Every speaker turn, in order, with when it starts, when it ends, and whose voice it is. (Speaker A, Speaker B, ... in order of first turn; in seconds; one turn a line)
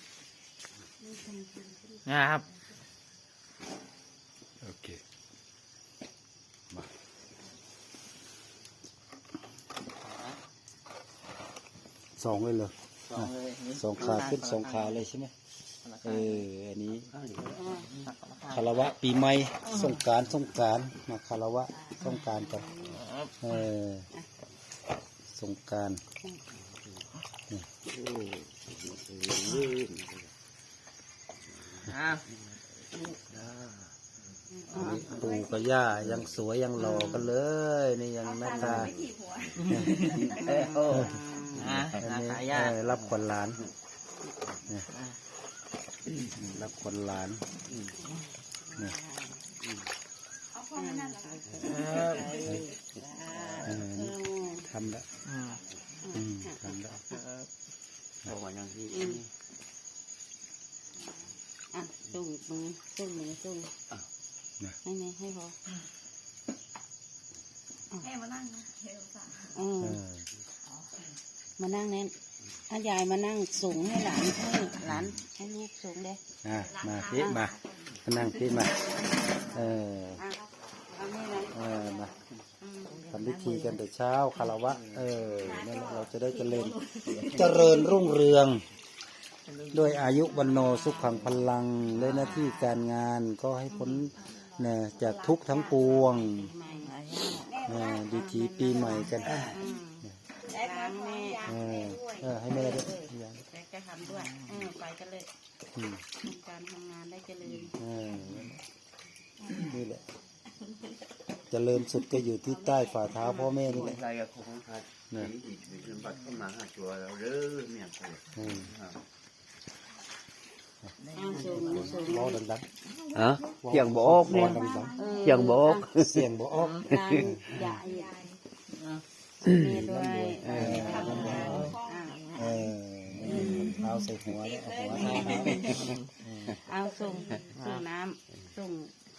Speaker A: 1.0-2.0
Speaker B: 2.0-2.4
Speaker C: 4.6-5.0
Speaker C: 12.2-15.3
Speaker B: 13.1-15.0
Speaker B: 15.8-16.4
Speaker C: 16.0-17.1
Speaker D: 17.1-18.1
Speaker A: 17.4-17.9
Speaker B: 18.0-18.9
Speaker C: 18.5-22.8
Speaker A: 22.6-23.0
Speaker B: 23.0-23.3
Speaker C: 23.4-24.1
Speaker C: 25.3-26.0
Speaker D: 26.7-27.0
Speaker D: 27.9-30.3
Speaker D: 31.5-33.9
Speaker B: 31.9-32.2
Speaker A: 34.5-35.3
Speaker B: 34.7-35.0
Speaker C: 34.7-38.9
Speaker D: 35.9-36.4
Speaker A: 36.8-37.3
Speaker E: 38.2-40.7
Speaker D: 38.5-42.0
Speaker B: 39.6-41.0
Speaker A: 40.1-41.7
Speaker C: 40.9-41.1
Speaker B: 41.6-42.8
Speaker C: 41.7-43.6
Speaker C: 46.4-47.4
Speaker D: 47.7-48.0
Speaker A: 48.0-49.4
Speaker D: 49.6-49.9
Speaker E: 50.5-52.6
Speaker A: 50.7-54.7
Speaker B: 51.6-52.4
Speaker D: 53.2-53.7
Speaker C: 53.6-55.1
Speaker B: 55.2-55.6
Speaker A: 56.0-56.8
Speaker C: 56.1-57.0
Speaker B: 57.1-57.5
Speaker D: 58.2-59.2
Speaker A: 58.9-59.2
Speaker A: 61.7-63.7
Speaker A: 64.8-65.5
Speaker E: 68.0-69.5
Speaker A: 69.5-70.0
Speaker C: 69.8-70.2
Speaker A: 71.6-72.1
Speaker A: 72.7-76.2
Speaker C: 74.8-75.2
Speaker C: 76.4-78.8
Speaker E: 76.6-79.6
Speaker A: 77.1-77.5
Speaker C: 79.3-80.2
Speaker A: 80.2-83.0
Speaker C: 81.5-82.1
Speaker B: 82.9-83.8
Speaker C: 83.1-88.6
Speaker E: 85.3-88.0
Speaker B: 89.5-90.1
Speaker C: 89.7-96.5
Speaker A: 90.5-91.0
Speaker B: 92.0-92.5
Speaker E: 94.3-96.1
Speaker A: 95.8-101.6
Speaker B: 96.8-97.5
Speaker E: 97.4-98.1
Speaker C: 97.7-99.4
Speaker E: 98.9-99.5
Speaker E: 100.5-102.3
Speaker C: 101.4-103.4
Speaker A: 102.5-105.3
Speaker B: 104.0-104.6
Speaker C: 105.8-106.0
Speaker A: 106.2-107.8
Speaker C: 107.8-108.5
Speaker C: 109.5-110.0
Speaker C: 111.5-114.0
Speaker E: 112.4-112.9
Speaker A: 113.2-113.5
Speaker D: 113.7-119.0
Speaker B: 116.1-116.4
Speaker C: 118.4-118.7
Speaker B: 121.0-121.9
Speaker A: 121.1-122.4
Speaker D: 121.5-122.0
Speaker C: 121.8-122.7
Speaker E: 123.1-123.5
Speaker D: 123.1-124.6
Speaker C: 123.6-125.0
Speaker E: 124.3-125.7
Speaker A: 125.0-125.9
Speaker D: 125.2-126.3
Speaker C: 125.8-127.6
Speaker B: 126.6-126.9
Speaker A: 126.8-128.2
Speaker D: 126.9-127.4
Speaker E: 127.6-128.4
Speaker B: 128.7-129.0
Speaker A: 129.4-132.3
Speaker C: 129.5-131.8
Speaker D: 130.5-130.9
Speaker E: 130.7-132.5
Speaker B: 131.3-131.7
Speaker C: 132.3-136.6
Speaker D: 133.3-133.6
Speaker A: 133.3-133.6
Speaker B: 133.5-133.8
Speaker E: 134.3-135.9
Speaker D: 135.0-136.0
Speaker A: 135.3-135.9
Speaker A: 136.4-138.9
Speaker E: 137.1-137.4
Speaker D: 137.5-137.8